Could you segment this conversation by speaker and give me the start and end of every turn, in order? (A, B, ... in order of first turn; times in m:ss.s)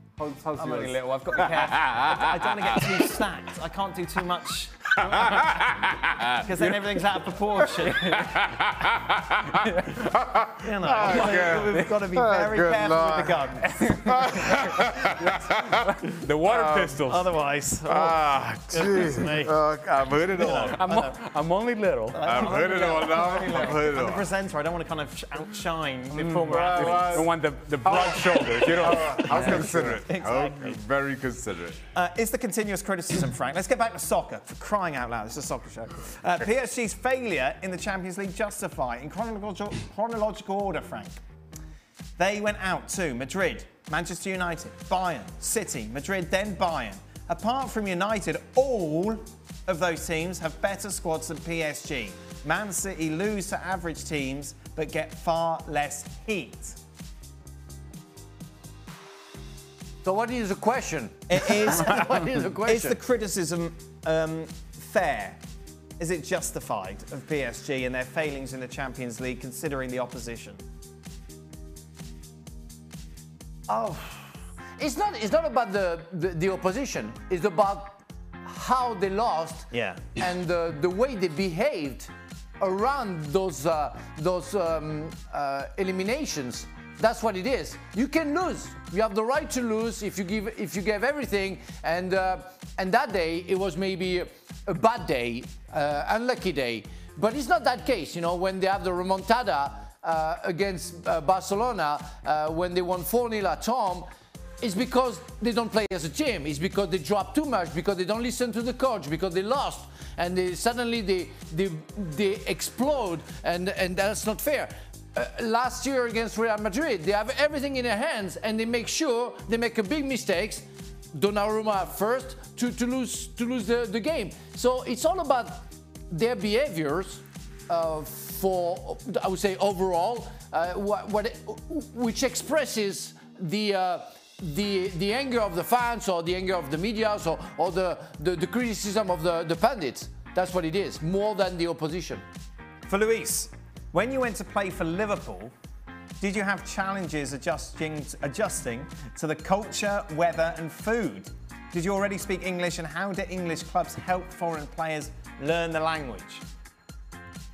0:00.2-0:03.1 A
0:00.6-0:05.2 B
0:05.0-0:06.5 A
0:06.4-0:08.4 B
0:08.1-0:17.0 A
0:09.7-0:10.0 C
0:10.6-0:13.9 B
0:13.6-0:17.3 C
0:17.0-0:19.6 B
0:17.9-0:20.8 A
0:20.3-0:21.2 B
0:20.8-0:22.4 C
0:22.1-0:27.3 B
0:22.2-0:24.3 A
0:26.1-0:29.8 C
0:26.4-0:27.3 A
0:27.8-0:31.8 A
0:29.1-0:30.6 B
0:31.9-0:41.2 B
0:42.2-0:56.8 B
1:00.0-1:03.0 D
1:01.3-1:05.4 B
1:06.0-1:10.6 B
1:13.7-1:44.1 D
1:19.7-1:20.1 B
1:44.6-2:22.2 D
2:22.9-2:25.5 B
2:26.2-2:36.4 B